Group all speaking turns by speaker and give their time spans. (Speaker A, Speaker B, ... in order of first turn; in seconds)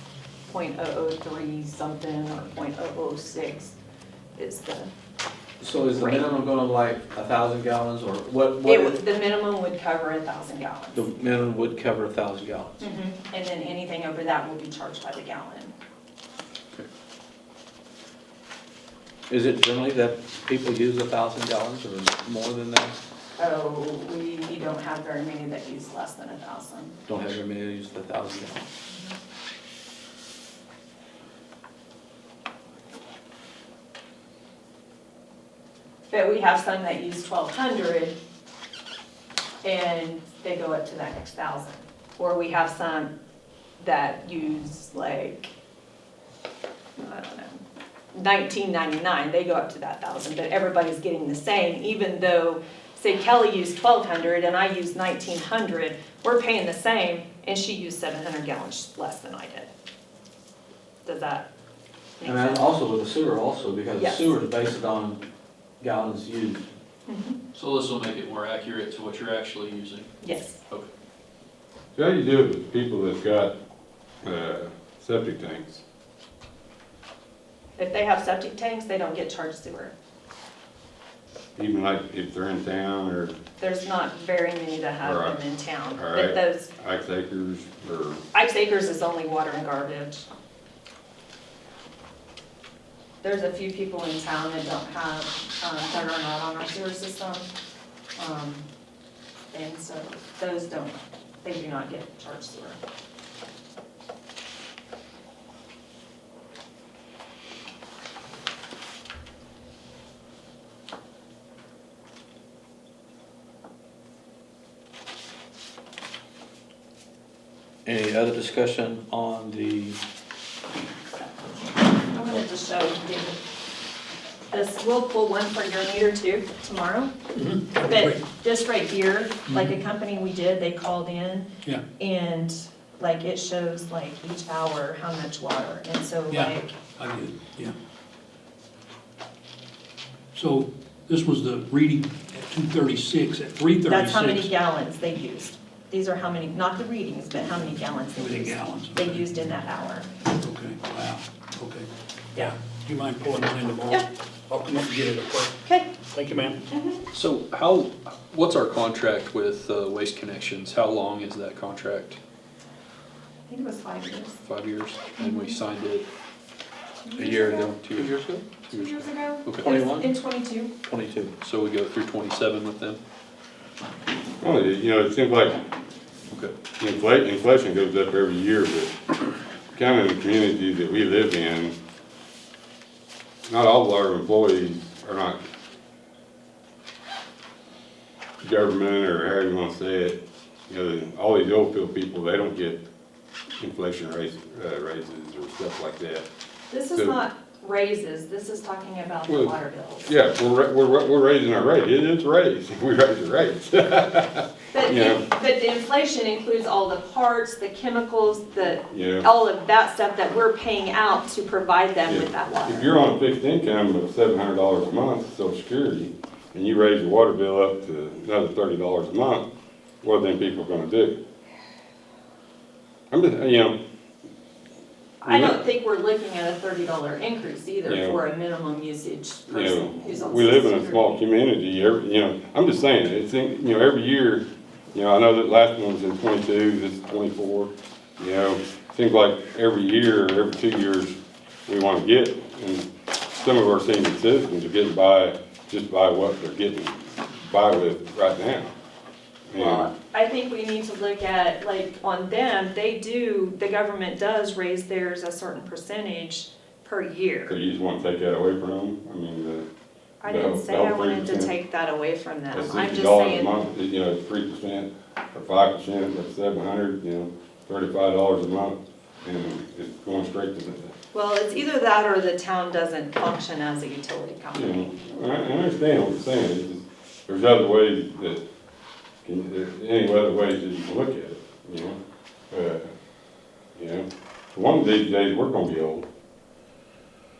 Speaker A: 0.5-3.8, 4.4-4.9, 5.9-6.3, 8.6-11.0, 12.8-15.7, 23.4-26.9, 36.1-38.2, 39.6-43.1, 43.8-45.5, 47.0-59.7, 61.0-61.5, 62.2-62.7, 64.0-64.3, 67.1-67.4, 70.2-70.6, 77.8-79.9, 83.6-86.7, 88.3-90.3, 93.2-97.5, 98.2-98.6, 99.5-102.8, 122.0-123.4, 124.5-127.1, 127.8-136.7, 143.9-150.1, 155.6-155.9, 156.7-157.0, 163.5-164.4, 165.2-165.6, 167.0-167.7, 168.7-170.7, 196.7-200.1, 204.7-212.9, 225.2-231.1, 249.6-257.6, 260.2-263.5, 271.1-274.9
Speaker B: 5.6-9.0, 10.9-12.8, 19.3-23.0, 27.1-28.6, 62.2-65.2, 65.8-66.6, 117.9-120.0, 167.2-168.4, 169.6-170.1, 170.8-171.3
Speaker C: 67.5-70.9, 157.1-162.2, 164.4-166.1, 167.8-169.7, 171.4-173.0
Speaker D: 72.0-73.6, 74.2-75.8, 81.6-83.4, 85.0-85.4, 86.0-88.2, 174.4-175.6, 176.8-178.9, 179.7-181.8, 183.5-185.4, 188.4-192.8, 193.6-196.3, 200.1-205.2, 208.9-209.3, 212.1-219.5, 220.0-221.2, 223.1-223.8, 225.2-225.6, 227.9-228.2, 229.5-241.2, 241.7-248.7, 249.5-249.9, 257.5-259.7, 260.2-261.5, 262.5-270.9, 274.5-278.4, 279.2-282.0, 282.5-282.9, 283.8-286.1
Speaker E: 127.3-128.2, 136.3-137.7, 140.3-144.5, 148.2-149.3, 150.4-156.6